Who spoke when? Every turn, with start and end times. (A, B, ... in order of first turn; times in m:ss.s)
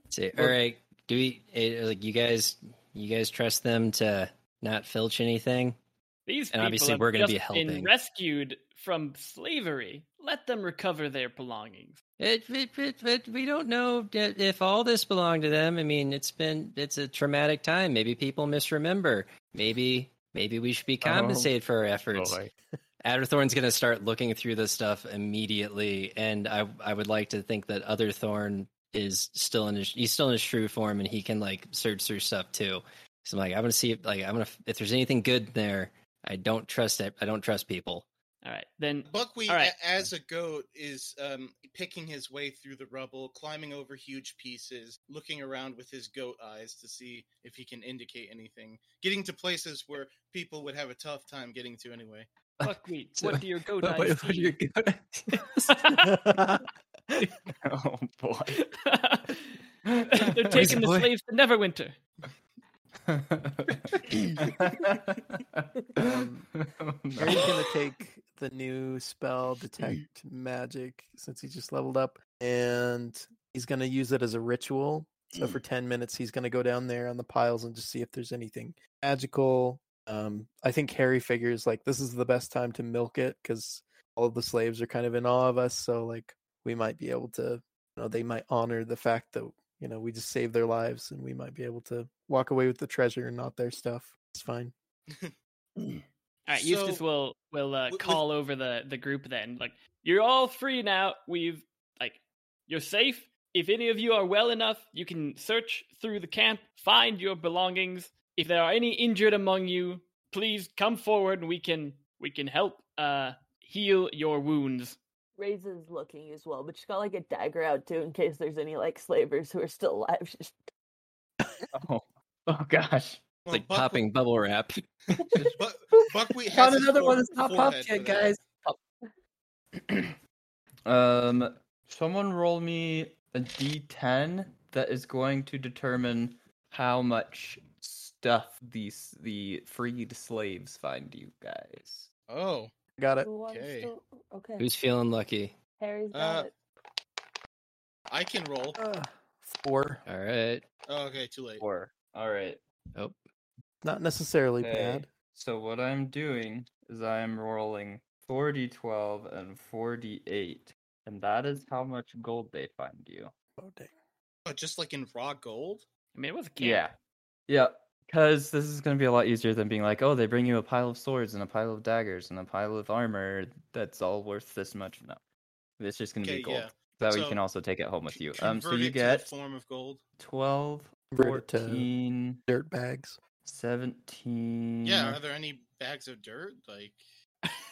0:00.1-0:05.8 A
0:00.3-0:00.6 B
0:06.3-0:12.0 C
0:06.5-0:07.9 A
0:12.2-0:22.4 A
0:21.0-0:21.5 B
0:22.1-0:22.5 B
0:23.0-0:38.1 A
0:38.4-0:39.7 C
0:39.1-0:52.3 D
0:52.6-0:55.7 A
0:52.6-0:54.6 C
0:55.7-0:56.2 C
0:56.0-0:57.3 E
0:57.6-0:58.6 B
0:58.6-0:59.6 C
0:59.8-1:00.5 B
1:00.1-1:02.0 C
1:00.5-1:01.1 A
1:03.1-1:07.5 B
1:06.0-1:06.5 E
1:07.2-1:34.7 E
1:35.1-1:35.3 D
1:36.5-1:55.0 C
1:36.5-1:37.0 D
1:37.9-1:38.2 D
1:55.4-2:00.6 F
2:01.7-2:03.2 B
2:03.4-2:04.0 D
2:03.5-2:05.2 A
2:05.5-2:08.4 D
2:06.5-2:08.8 B
2:09.8-2:10.2 B
2:10.9-2:22.1 B
2:22.3-2:22.7 D
2:23.0-2:23.4 E
2:23.2-2:24.7 F
2:23.4-2:23.9 D
2:24.6-2:25.6 A
2:25.8-2:26.5 F
2:26.1-2:26.5 D
2:28.1-2:28.8 D
2:28.8-2:30.0 E
2:30.1-2:30.6 A
2:30.9-2:31.6 D
2:31.6-2:32.6 B
2:33.8-2:35.1 E
2:34.6-2:43.3 B
2:43.6-2:43.9 E
2:44.5-2:45.9 D
2:46.2-2:46.9 C
2:46.6-2:46.9 B
2:47.5-2:55.2 B
2:55.8-2:59.3 B
2:56.2-2:57.4 D
2:58.1-3:00.0 D
3:00.2-3:02.4 B
3:01.1-3:01.9 E
3:02.5-3:03.2 E
3:03.4-3:05.2 B
3:04.8-3:07.0 D